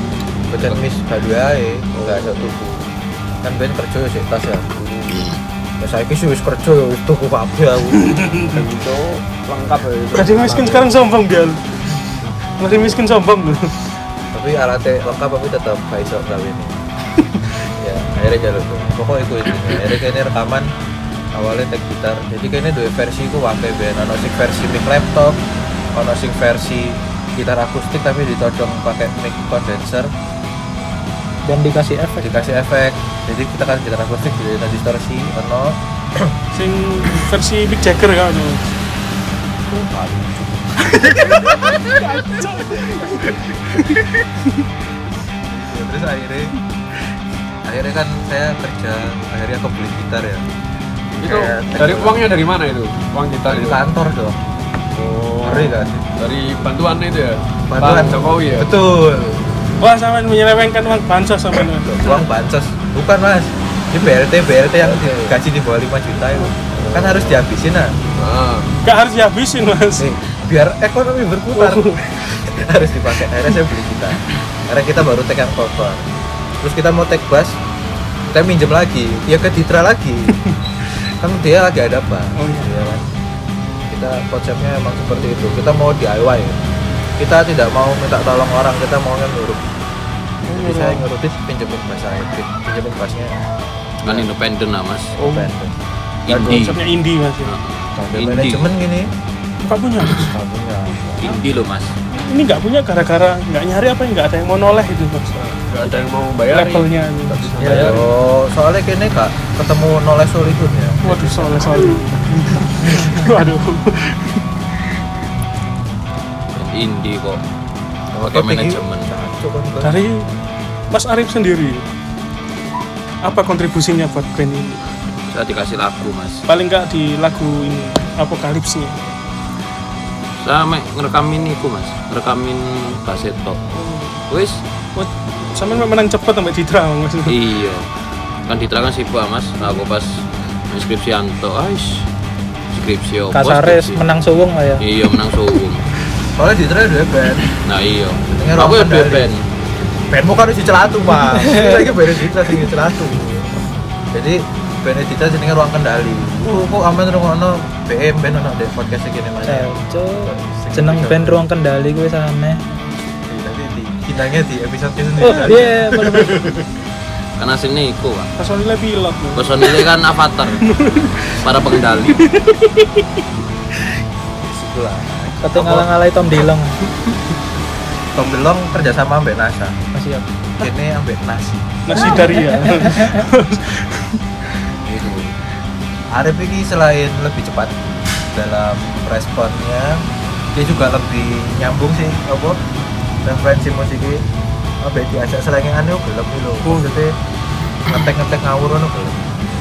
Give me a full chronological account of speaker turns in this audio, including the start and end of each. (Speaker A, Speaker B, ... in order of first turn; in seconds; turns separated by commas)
Speaker A: 0.5-2.8, Speaker B: 1.9-2.5, Speaker A: 3.4-4.7, Speaker B: 4.8-5.3, Speaker A: 5.8-8.2, Speaker C: 7.9-8.6, Speaker B: 8.4-10.9, Speaker C: 10.1-11.6, Speaker C: 12.6-13.8, Speaker A: 14.3-16.8, Speaker A: 17.8-20.7, Speaker A: 21.3-25.4, Speaker A: 25.9-30.1, Speaker D: 31.4-32.3, Speaker A: 32.2-36.4, Speaker C: 36.5-38.7, Speaker A: 39.7-41.8, Speaker C: 40.8-44.6, Speaker A: 45.5-46.5, Speaker A: 47.6-50.5, Speaker B: 51.2-53.8, Speaker A: 51.2-52.3, Speaker A: 53.5-54.4, Speaker B: 54.9-58.7, Speaker A: 55.4-56.0, Speaker A: 57.7-59.5, Speaker C: 59.8-62.0, Speaker A: 61.8-67.9, Speaker B: 65.0-65.2, Speaker B: 68.2-68.7, Speaker C: 68.8-70.1, Speaker A: 70.0-76.0, Speaker C: 71.5-72.1, Speaker A: 76.6-77.5, Speaker A: 78.3-80.4, Speaker A: 81.2-83.0, Speaker C: 82.3-82.7, Speaker A: 83.9-86.6, Speaker A: 87.2-89.6, Speaker C: 90.5-91.0, Speaker A: 90.5-93.4, Speaker E: 94.0-95.2, Speaker A: 95.2-95.8, Speaker E: 96.3-96.8, Speaker A: 96.3-96.7, Speaker C: 96.4-97.5, Speaker E: 97.4-98.7, Speaker A: 98.0-99.1, Speaker C: 99.6-100.3, Speaker A: 100.2-101.3, Speaker E: 101.2-101.9, Speaker C: 102.1-105.4, Speaker B: 105.4-108.1, Speaker C: 106.5-107.8, Speaker D: 107.6-107.9, Speaker A: 107.6-111.7, Speaker C: 111.0-114.4, Speaker E: 116.5-117.4, Speaker A: 118.1-120.0, Speaker E: 118.2-119.1, Speaker C: 119.8-120.3, Speaker C: 120.9-121.8, Speaker C: 123.2-124.8, Speaker E: 125.3-126.4, Speaker C: 126.5-129.1, Speaker E: 130.4-133.6, Speaker C: 133.7-134.2, Speaker E: 134.3-134.6, Speaker C: 134.9-137.4, Speaker E: 137.2-137.9, Speaker E: 138.4-142.1, Speaker E: 142.7-144.0, Speaker D: 143.3-144.8, Speaker E: 144.8-145.8, Speaker A: 146.3-147.5, Speaker E: 147.5-149.4, Speaker A: 148.3-149.3, Speaker A: 150.1-153.5, Speaker D: 151.3-151.8, Speaker A: 154.1-161.4, Speaker D: 159.4-162.8, Speaker A: 163.3-166.7, Speaker D: 165.2-166.4, Speaker E: 167.4-168.3, Speaker C: 168.4-169.9, Speaker E: 169.3-170.6, Speaker C: 170.6-171.5, Speaker E: 171.2-172.3, Speaker C: 172.1-173.2, Speaker A: 174.4-175.9, Speaker D: 175.4-176.8, Speaker A: 178.1-179.8, Speaker D: 179.9-180.2, Speaker A: 180.6-182.2, Speaker C: 181.8-184.2, Speaker D: 181.9-183.2, Speaker A: 184.8-185.3, Speaker A: 186.1-187.7, Speaker A: 188.3-192.6, Speaker A: 193.2-194.2, Speaker A: 194.8-197.1, Speaker C: 196.6-197.0, Speaker A: 197.9-199.2